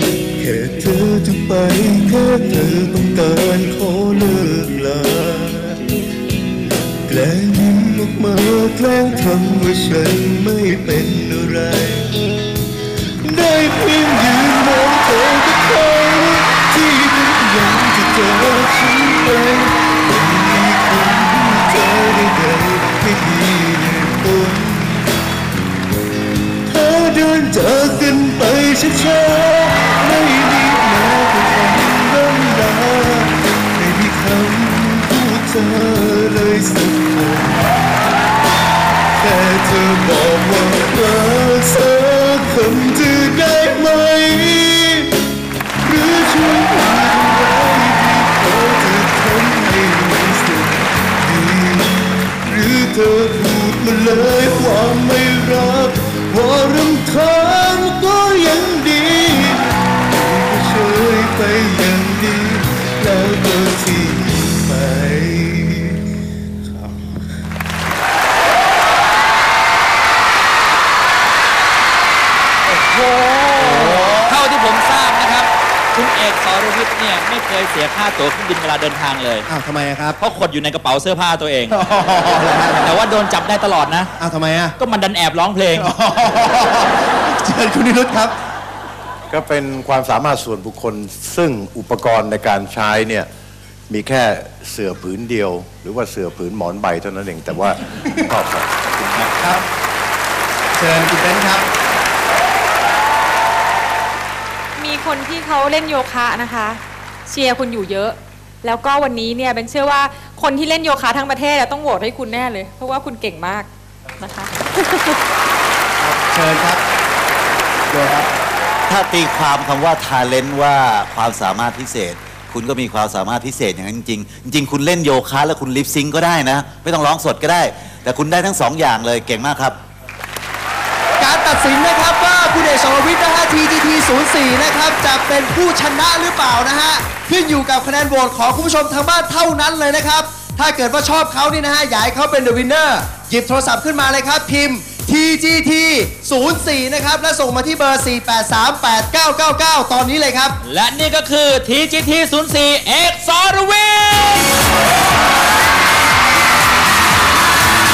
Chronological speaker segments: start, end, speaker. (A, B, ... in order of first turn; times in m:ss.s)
0:00.4-0:05.9 A
0:07.1-0:12.2 A
0:13.2-0:25.1 A
0:26.7-0:37.7 A
0:39.1-0:45.2 A
0:45.8-1:06.1 A
1:06.6-1:07.2 A
1:12.7-1:19.4 B
1:13.6-1:14.4 C
1:19.5-1:20.2 C
1:20.2-1:21.7 B
1:21.7-1:23.0 C
1:22.8-1:24.1 B
1:24.2-1:24.7 C
1:24.8-1:25.9 B
1:25.7-1:28.3 C
1:29.3-1:33.3 D
1:33.9-1:39.2 D
1:39.4-1:39.6 C
1:40.8-1:41.6 C
1:44.8-1:55.2 E
1:56.0-1:56.8 C
1:57.9-1:58.3 C
1:58.9-2:09.8 F
2:11.2-2:30.6 C
2:30.6-2:34.5 B